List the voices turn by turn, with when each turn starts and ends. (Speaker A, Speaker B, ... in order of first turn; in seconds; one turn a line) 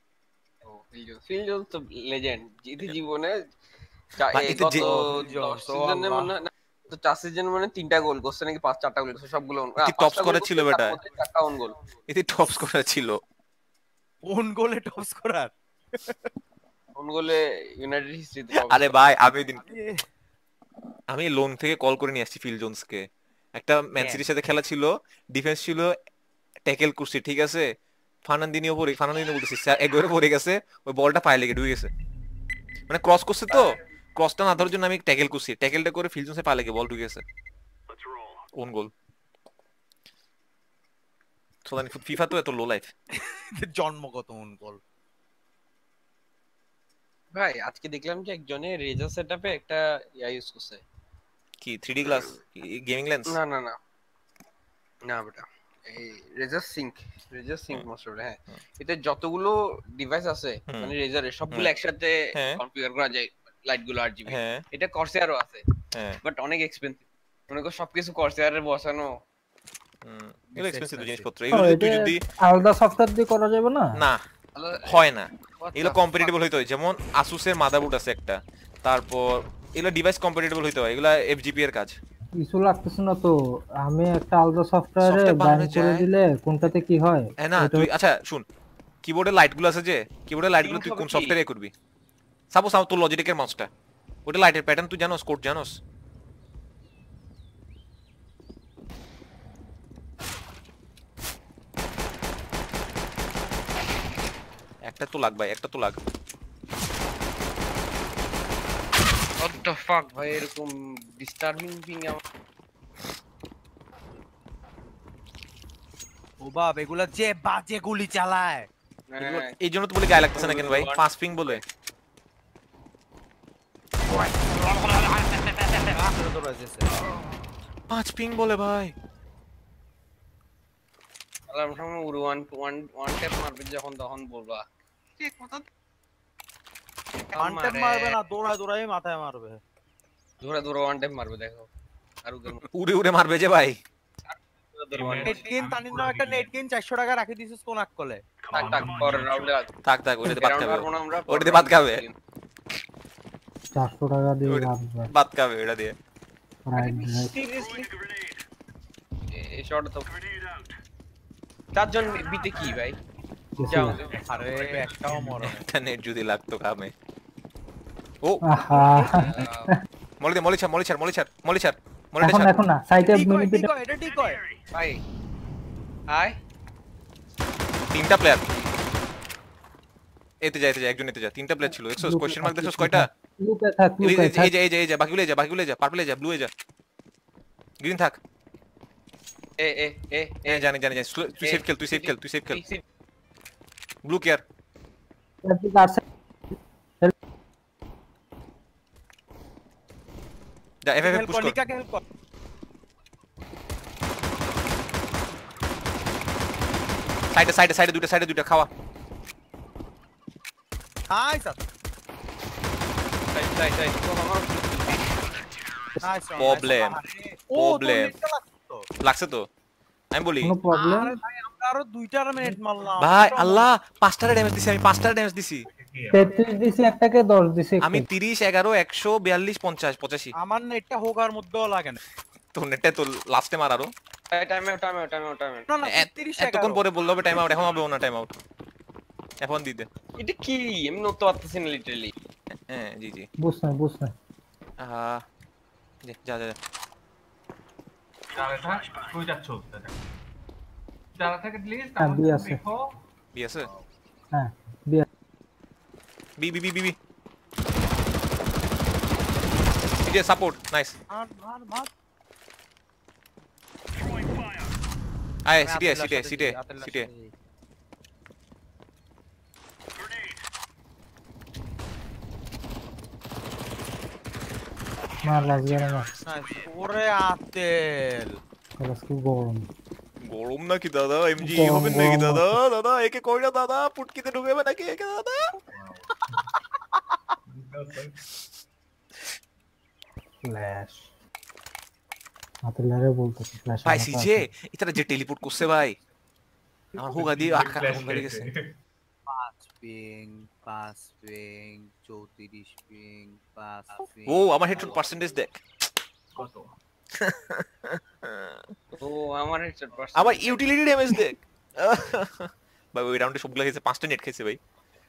Speaker A: 0.6-3.3
Speaker A: 4.2-11.8
Speaker B: 4.3-4.9
Speaker C: 4.5-6.3
Speaker B: 9.8-11.0
Speaker B: 12.1-13.2
Speaker C: 14.2-16.3
Speaker A: 16.9-19.1
Speaker B: 18.6-19.6
Speaker C: 19.6-20.0
Speaker B: 21.1-25.9
Speaker C: 23.9-24.2
Speaker B: 26.7-27.7
Speaker B: 28.2-31.9
Speaker B: 32.9-37.2
Speaker B: 38.5-38.9
Speaker B: 41.6-42.9
Speaker C: 43.2-44.8
Speaker A: 47.3-50.8
Speaker B: 51.6-53.4
Speaker A: 53.3-53.8
Speaker A: 55.0-65.6
Speaker B: 62.3-62.6
Speaker B: 64.3-64.6
Speaker B: 65.9-66.2
Speaker A: 66.2-69.1
Speaker B: 70.0-72.2
Speaker C: 70.6-71.3
Speaker D: 71.5-74.0
Speaker B: 74.0-74.2
Speaker A: 74.6-75.0
Speaker B: 74.8-82.0
Speaker A: 75.6-76.4
Speaker D: 82.4-87.9
Speaker B: 85.0-86.1
Speaker B: 87.4-88.4
Speaker B: 89.0-91.7
Speaker A: 90.6-91.4
Speaker B: 92.5-93.7
Speaker B: 94.2-95.8
Speaker B: 104.9-106.0
Speaker A: 109.4-112.2
Speaker C: 116.4-118.7
Speaker A: 119.1-119.5
Speaker B: 119.2-121.6
Speaker A: 120.3-121.6
Speaker C: 124.1-126.9
Speaker B: 127.9-128.9
Speaker A: 131.5-134.7
Speaker A: 135.2-135.6
Speaker A: 137.3-138.1
Speaker C: 137.3-139.6
Speaker A: 140.4-141.7
Speaker A: 142.2-142.7
Speaker B: 142.6-143.8
Speaker A: 144.2-145.5
Speaker E: 144.9-146.5
Speaker C: 145.2-148.2
Speaker E: 148.5-149.5
Speaker A: 148.5-149.7
Speaker B: 149.8-152.0
Speaker A: 150.2-152.1
Speaker D: 153.7-155.1
Speaker B: 154.5-156.0
Speaker D: 156.7-157.3
Speaker A: 156.8-157.9
Speaker A: 159.3-160.1
Speaker A: 161.8-163.0
Speaker D: 163.6-164.0
Speaker A: 163.7-164.1
Speaker E: 163.8-165.5
Speaker C: 164.2-165.6
Speaker B: 165.4-166.9
Speaker D: 168.4-169.7
Speaker A: 168.7-169.7
Speaker B: 170.2-172.5
Speaker D: 172.2-173.7
Speaker C: 173.0-174.4
Speaker A: 174.7-175.0
Speaker A: 176.1-176.4
Speaker B: 177.9-178.4
Speaker B: 180.4-183.1
Speaker D: 182.0-184.5
Speaker B: 184.0-186.5
Speaker B: 187.8-188.2
Speaker A: 189.6-190.7
Speaker B: 190.5-192.6
Speaker A: 191.4-192.8
Speaker B: 194.0-194.4
Speaker D: 195.4-196.0
Speaker B: 200.8-201.6
Speaker C: 201.0-202.0
Speaker B: 207.3-208.7
Speaker C: 211.1-211.6
Speaker A: 213.3-215.2
Speaker C: 216.0-218.8
Speaker B: 216.3-217.0
Speaker B: 217.5-218.2
Speaker B: 219.0-219.5
Speaker B: 220.1-220.5
Speaker D: 220.4-221.2
Speaker C: 220.7-223.7
Speaker B: 223.0-225.7
Speaker E: 225.7-226.5
Speaker D: 226.1-228.1
Speaker B: 227.8-230.3
Speaker C: 230.4-232.0
Speaker B: 232.5-233.9
Speaker A: 234.3-235.7
Speaker C: 235.7-236.8
Speaker B: 235.8-238.3
Speaker B: 239.4-239.9
Speaker A: 240.2-242.1
Speaker B: 242.7-243.3
Speaker D: 243.4-244.1
Speaker B: 244.8-245.2
Speaker B: 246.0-246.6
Speaker E: 248.3-250.0
Speaker E: 251.2-252.9
Speaker D: 252.0-252.6
Speaker B: 253.3-253.7
Speaker D: 254.3-255.1
Speaker B: 256.4-256.9
Speaker B: 260.0-260.9
Speaker C: 261.1-261.9
Speaker B: 265.4-267.1
Speaker C: 265.6-267.3
Speaker D: 275.2-276.1
Speaker C: 276.2-278.4
Speaker D: 278.8-279.7
Speaker B: 280.2-285.6
Speaker D: 281.4-282.6
Speaker E: 285.7-286.4
Speaker E: 287.5-288.2
Speaker D: 290.4-291.1
Speaker D: 292.6-294.4
Speaker B: 293.9-295.9
Speaker B: 297.0-298.5
Speaker E: 297.0-298.8
Speaker C: 299.3-304.5
Speaker B: 304.3-305.6
Speaker E: 306.4-306.7
Speaker B: 307.1-308.7
Speaker A: 308.9-310.6
Speaker B: 310.1-314.6